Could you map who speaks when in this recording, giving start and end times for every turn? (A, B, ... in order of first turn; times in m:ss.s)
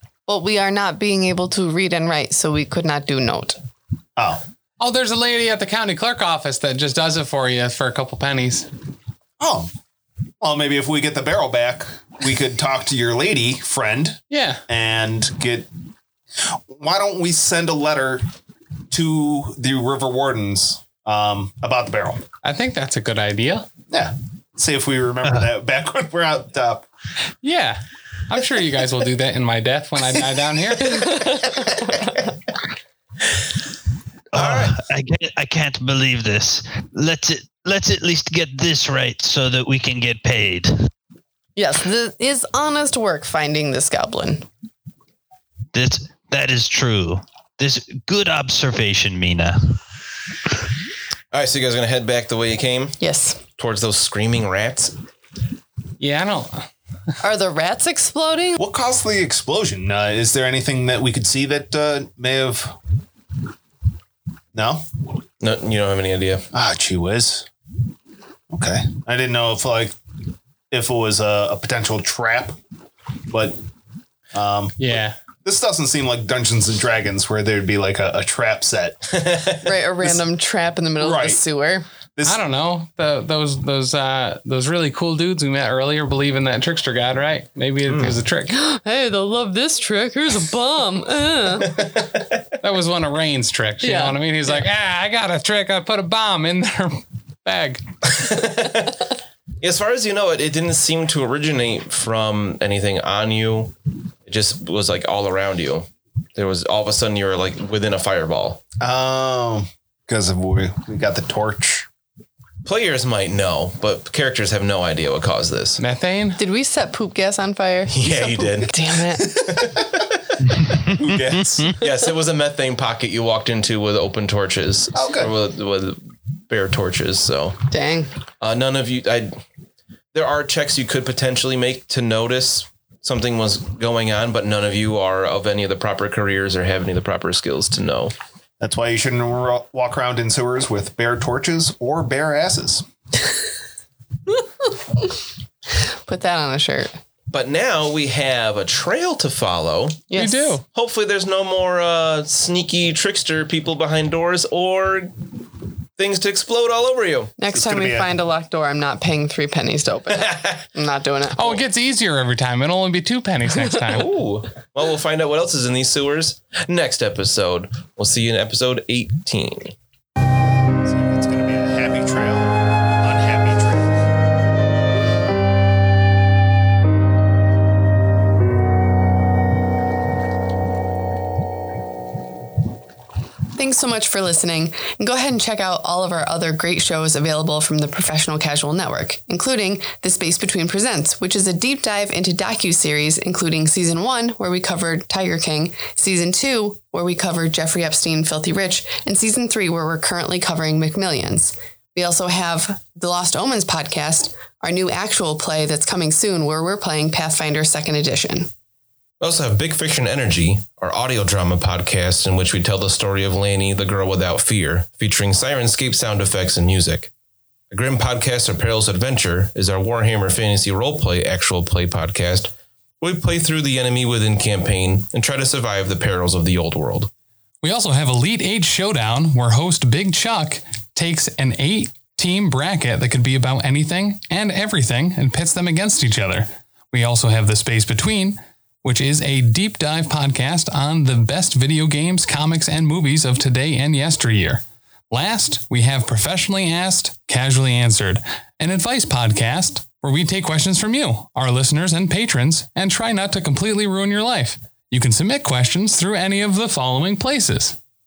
0:00.3-0:03.6 A
0:04.2-0:04.4 B
0:04.8-0:08.7 C
0:09.4-0:09.7 B
0:10.4-0:15.7 B
0:14.3-0:14.6 C
0:16.4-0:18.2 B
0:18.9-0:22.2 B
0:22.4-0:23.7 C
0:23.9-0:26.9 B
0:27.4-0:31.5 C
0:30.9-0:32.2 A
0:34.3-0:40.9 D
0:34.3-0:34.8 E
0:41.6-0:44.4 A
0:45.7-0:49.8 D
0:51.3-0:53.0 E
0:53.0-0:53.4 A
0:53.6-0:54.9 E
0:56.0-0:56.7 C
0:57.2-0:58.6 A
0:58.6-1:02.8 B
1:04.5-1:04.8 B
1:05.4-1:06.5 E
1:06.5-1:07.5 B
1:08.5-1:09.9 B
1:10.7-1:12.6 B
1:13.3-1:13.6 B
1:14.3-1:19.2 B
1:14.8-1:15.1 C
1:19.1-1:19.7 E
1:19.6-1:21.8 A
1:21.0-1:21.4 B
1:22.2-1:28.5 C
1:27.9-1:28.1 E
1:28.5-1:31.8 A
1:31.6-1:32.2 E
1:32.6-1:37.8 C
1:33.8-1:34.2 A
1:38.0-1:39.0 E
1:39.6-1:43.7 E
1:44.2-1:48.6 E
1:48.8-1:51.9 B
1:52.6-1:55.8 E
1:55.8-1:56.4 C
1:56.4-1:59.4 A
1:57.9-2:00.2 E
2:00.6-2:01.7 D
2:00.9-2:01.8 B
2:01.7-2:07.6 E
2:04.9-2:05.3 B
2:07.7-2:08.1 A
2:08.4-2:09.4 E
2:10.1-2:18.1 E
2:18.6-2:22.8 B
2:26.0-2:26.9 A
2:27.3-2:30.0 E
2:30.1-2:30.6 A
2:30.2-2:30.6 C
2:30.7-2:35.2 E
2:36.0-2:37.3 E
2:37.4-2:41.6 A
2:37.5-2:38.1 B
2:40.2-2:40.6 E
2:41.3-2:44.1 C
2:43.9-2:49.7 E
2:50.8-2:54.0 B
3:03.5-3:28.5 A
3:29.2-3:37.1 E
3:37.7-3:47.1 E
3:47.6-4:17.8 C